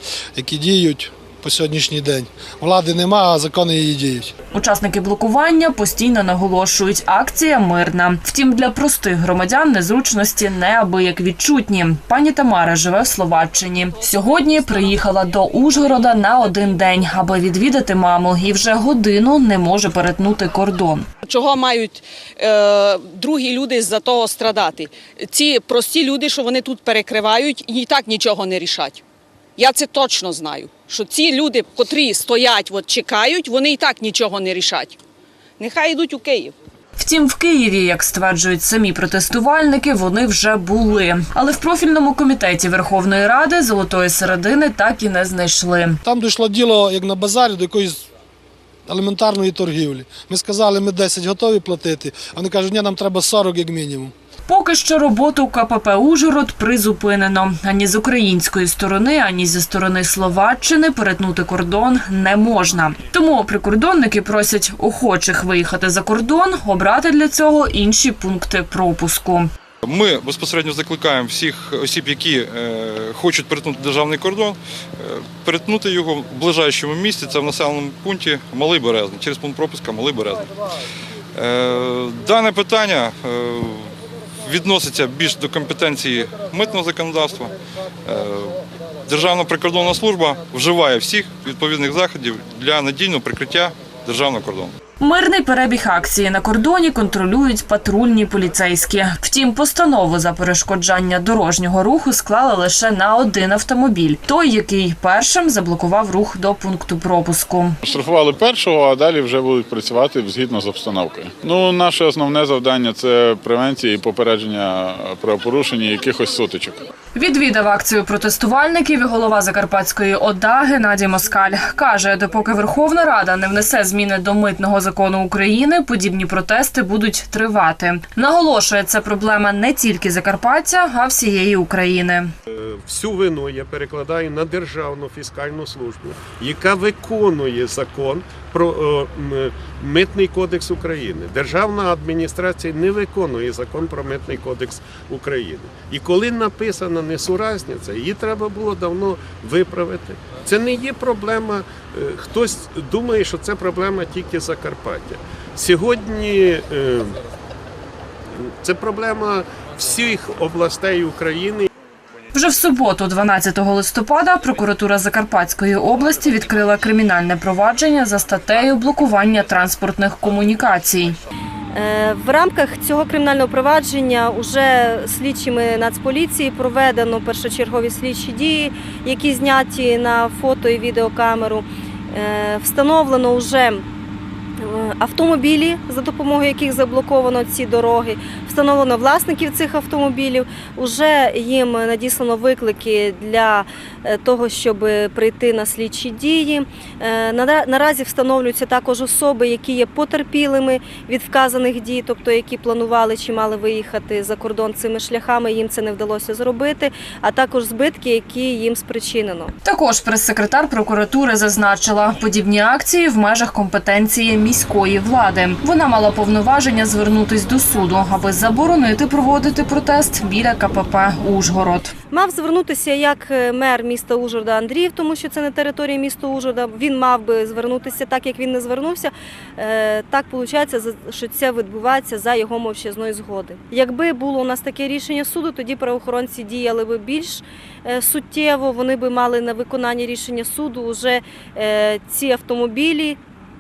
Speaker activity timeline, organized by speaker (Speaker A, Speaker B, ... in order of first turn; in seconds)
Speaker A: 0.3-4.3, 46.0-48.1, 48.9-54.1
Speaker B: 4.5-21.1, 37.0-46.0, 54.5-69.5, 95.0-107.8, 117.2-132.3, 162.3-171.2, 209.6-221.9
Speaker C: 21.3-29.0, 29.6-35.0, 35.6-36.5
Speaker D: 69.8-80.5, 81.3-87.5, 88.1-94.7
Speaker E: 107.8-116.9
Speaker F: 132.5-157.2, 158.4-161.7
Speaker G: 171.7-183.8, 184.6-209.5, 222.1-243.2